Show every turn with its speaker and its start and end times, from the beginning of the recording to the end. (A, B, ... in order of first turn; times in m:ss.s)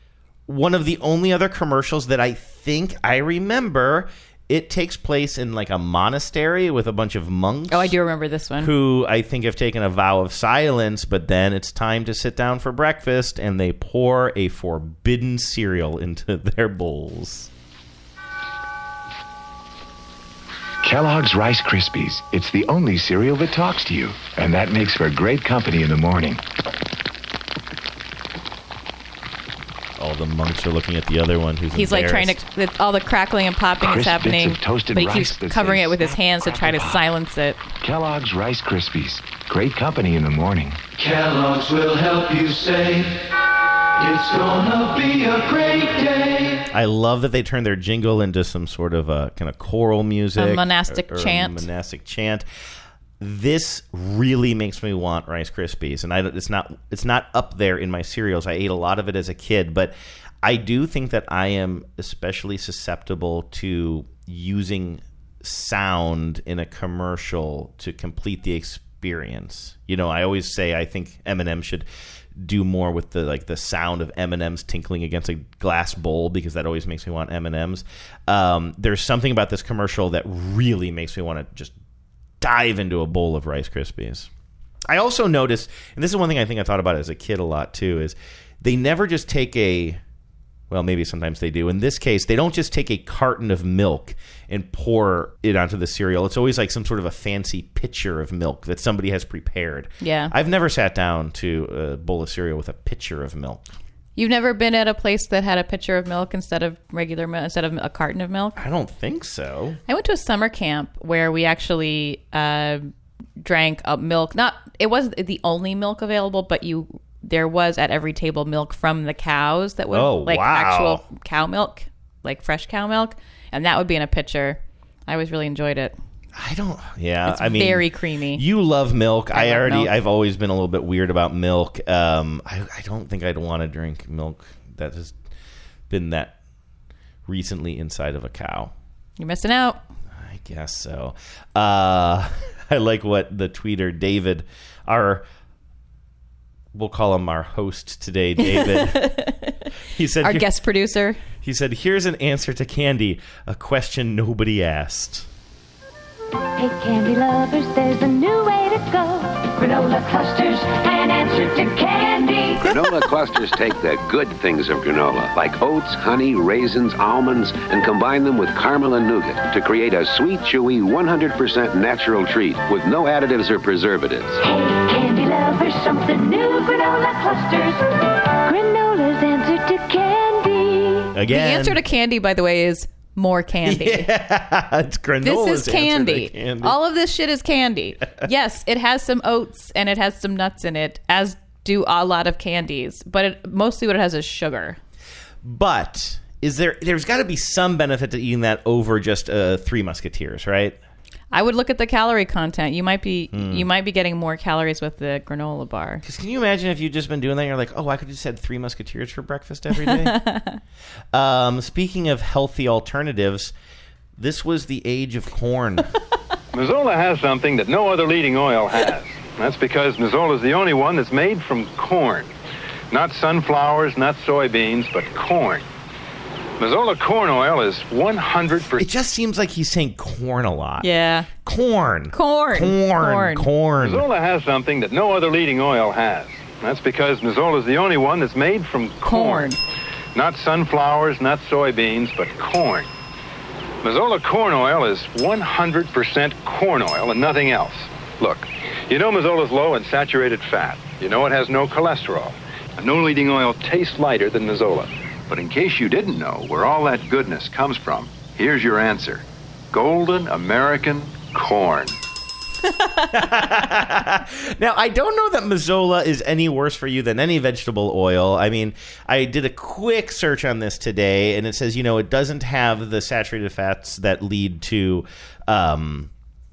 0:00.5-0:08.0 A
0:07.7-0:08.7 B
0:08.6-0:17.5 A
0:20.8-0:26.4 C
0:30.0-0:32.4 A
0:31.7-0:37.6 B
0:33.8-0:37.0 C
0:37.8-0:40.8 C
0:41.0-0:43.1 D
0:44.0-0:46.6 D
0:46.7-0:52.4 A
0:50.4-0:51.6 B
0:53.2-1:21.7 A
1:22.4-1:24.3 A
1:24.9-1:30.0 A
1:30.7-1:43.7 A
1:40.0-1:40.3 B
1:44.2-1:48.6 B
1:48.6-1:49.8 A
1:49.9-2:05.9 B
1:59.9-2:01.0 A
2:06.3-2:15.2 A
2:07.2-2:08.4 B
2:09.3-2:09.9 B
2:15.9-2:16.3 A
2:17.2-2:18.7 A
2:19.2-2:19.8 B
2:20.1-2:25.2 A
2:26.7-2:29.0 A
2:28.4-2:29.7 B
2:29.9-2:30.5 A
2:30.2-2:31.2 B
2:31.4-2:35.3 A
2:36.6-2:42.7 E
2:42.6-2:54.4 F
2:54.4-3:01.1 E
3:01.1-3:01.8 A
3:01.3-3:04.1 B
3:03.6-3:06.8 A
3:05.2-3:14.8 B
3:15.4-3:20.8 A
3:21.3-3:26.0 B
3:23.3-3:23.6 A
3:26.0-3:30.1 A
3:29.8-3:30.6 B
3:31.1-3:33.5 A
3:34.2-3:35.9 A
3:36.5-3:42.3 G
3:42.9-3:45.6 G
3:46.6-3:48.9 G
3:48.8-3:50.9 A
3:50.8-3:51.3 B
3:51.4-3:54.0 A
3:52.1-3:53.5 B
3:53.8-3:59.6 G
3:59.0-3:59.6 B
4:00.1-4:02.9 G
4:03.8-4:22.0 G
4:22.7-4:23.1 B
4:23.1-4:36.1 A